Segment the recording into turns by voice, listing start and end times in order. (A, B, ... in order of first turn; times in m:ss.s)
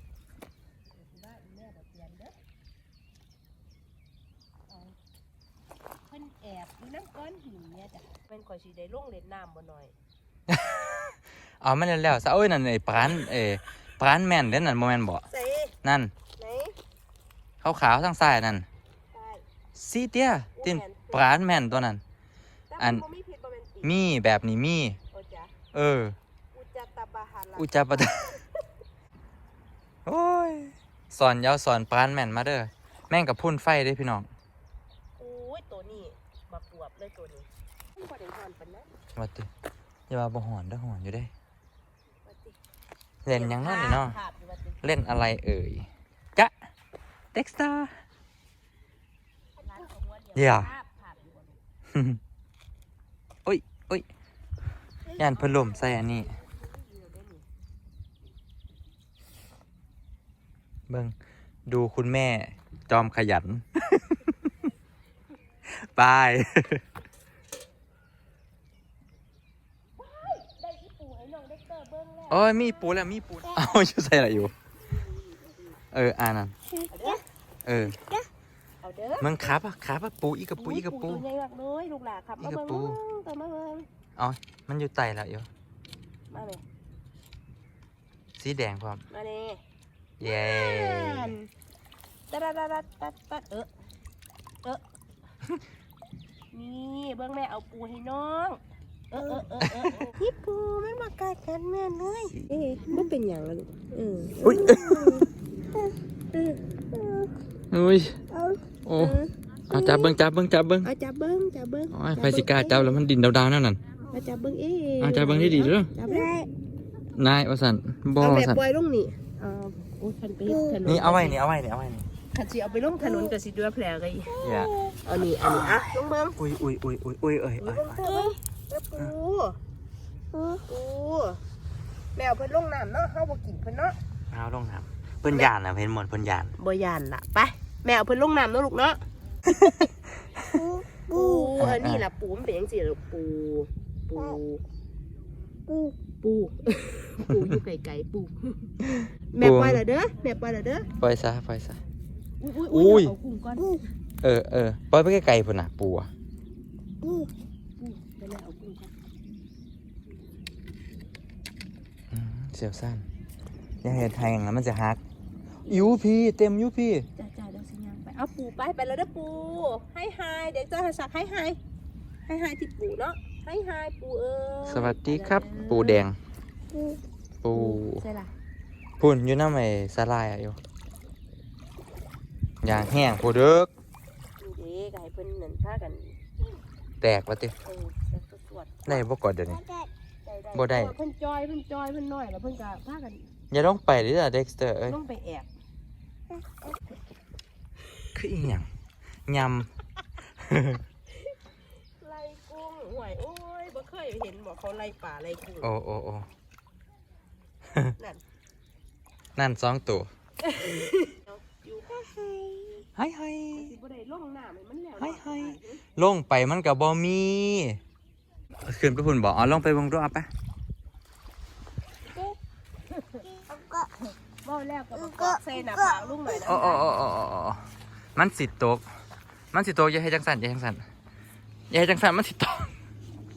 0:00.9-0:02.4 A
0:04.7-0:05.0 A
0:06.1-0:09.9 A
0:10.5-0:15.3 B
0:15.3-0:15.8 A
0:15.8-0:16.1 B
0:16.4-0:16.8 A
0:17.6-0:18.7 B
0:19.1-0:19.4 A
0:19.8-0:22.0 B
0:20.6-0:21.4 A
0:22.7-0:24.1 A
0:22.8-0:23.0 B
0:23.8-0:25.0 B
0:25.1-0:25.5 A
0:25.7-0:26.2 B
0:26.5-0:28.5 A
0:27.6-0:28.4 B
0:30.1-0:34.3 B
0:35.2-0:38.9 A
0:39.2-0:39.5 B
0:40.1-0:41.3 B
0:42.2-0:42.6 A
0:43.2-0:44.2 B
0:43.3-0:44.8 A
0:44.8-0:46.5 B
0:47.3-0:47.9 B
0:49.6-0:51.6 A
0:50.4-0:50.7 B
0:51.9-0:52.2 B
0:53.4-0:54.0 B
0:55.2-0:56.3 B
0:55.2-0:57.4 A
1:00.9-1:01.1 B
1:01.7-1:04.3 B
1:05.7-1:06.8 B
1:10.0-1:12.9 A
1:12.3-1:14.5 B
1:15.0-1:15.7 A
1:15.9-1:16.6 B
1:16.7-1:17.2 C
1:16.9-1:17.2 A
1:17.6-1:18.0 B
1:17.9-1:18.3 C
1:18.8-1:19.5 A
1:19.2-1:21.2 B
1:20.6-1:23.9 A
1:22.4-1:23.0 B
1:24.2-1:25.5 B
1:26.3-1:26.6 A
1:28.4-1:29.0 B
1:29.1-1:29.6 A
1:30.2-1:31.4 B
1:30.2-1:31.5 A
1:32.3-1:33.7 A
1:36.5-1:38.6 A
1:39.1-1:45.3 A
1:39.6-1:40.0 B
1:44.4-1:45.2 B
1:44.4-1:46.0 C
1:46.3-1:46.6 A
1:46.9-1:47.3 C
1:47.7-1:48.2 B
1:48.3-1:48.6 C
1:48.9-1:49.2 B
1:49.0-1:50.1 A
1:49.7-1:50.9 B
1:50.8-1:53.0 A
1:51.9-1:53.8 B
1:54.1-1:56.3 A
1:55.0-1:55.9 B
1:56.0-1:56.5 C
1:57.2-1:58.6 B
1:58.2-2:01.4 A
2:00.5-2:00.8 C
2:00.9-2:02.1 B
2:02.3-2:04.3 A
2:03.0-2:03.4 C
2:04.3-2:05.0 C
2:04.4-2:08.0 B
2:05.0-2:06.4 A
2:07.6-2:09.6 A
2:08.0-2:08.4 C
2:10.3-2:10.6 C
2:10.7-2:11.4 A
2:12.2-2:14.0 A
2:14.3-2:16.6 B
2:16.6-2:19.0 A
2:19.5-2:19.8 B
2:20.5-2:21.6 C
2:21.1-2:24.6 A
2:21.6-2:22.0 B
2:25.7-2:26.0 C
2:26.2-2:30.9 A
2:28.9-2:29.8 B
2:31.0-2:31.8 B
2:32.4-2:33.8 A
2:32.7-2:33.2 B
2:33.6-2:33.8 C
2:34.2-2:36.1 B
2:37.0-2:37.3 C
2:37.8-2:38.9 A
2:42.1-2:43.0 B
2:43.8-2:45.0 B
2:45.6-2:47.1 B
2:45.7-2:45.9 A
2:47.2-2:51.6 A
2:52.3-2:56.0 A
2:54.7-2:56.2 B
2:56.7-2:57.0 C
2:57.4-2:58.0 B
2:57.5-2:58.3 A
2:59.0-3:00.6 B
3:02.6-3:03.7 B
3:04.4-3:06.2 A
3:07.0-3:07.5 B
3:07.6-3:09.1 A
3:08.9-3:09.6 B
3:09.4-3:09.9 C
3:10.2-3:13.3 A
3:10.5-3:10.9 B
3:13.5-3:15.0 B
3:14.9-3:15.5 A
3:16.3-3:16.7 C
3:18.2-3:18.7 B
3:19.3-3:19.7 B
3:20.4-3:20.8 B
3:22.0-3:25.7 A
3:25.6-3:26.3 B
3:28.0-3:28.2 A
3:29.4-3:30.1 B
3:30.4-3:32.8 A
3:33.0-3:33.7 B
3:33.6-3:35.8 A
3:35.0-3:37.8 B
3:38.6-3:40.3 B
3:42.1-3:42.4 C
3:42.9-3:43.2 A
3:43.2-3:43.9 C
3:44.4-3:46.9 A
3:44.9-3:46.4 C
3:46.5-3:47.6 B
3:48.2-3:48.8 B
3:49.5-3:50.8 B
3:51.7-3:52.7 B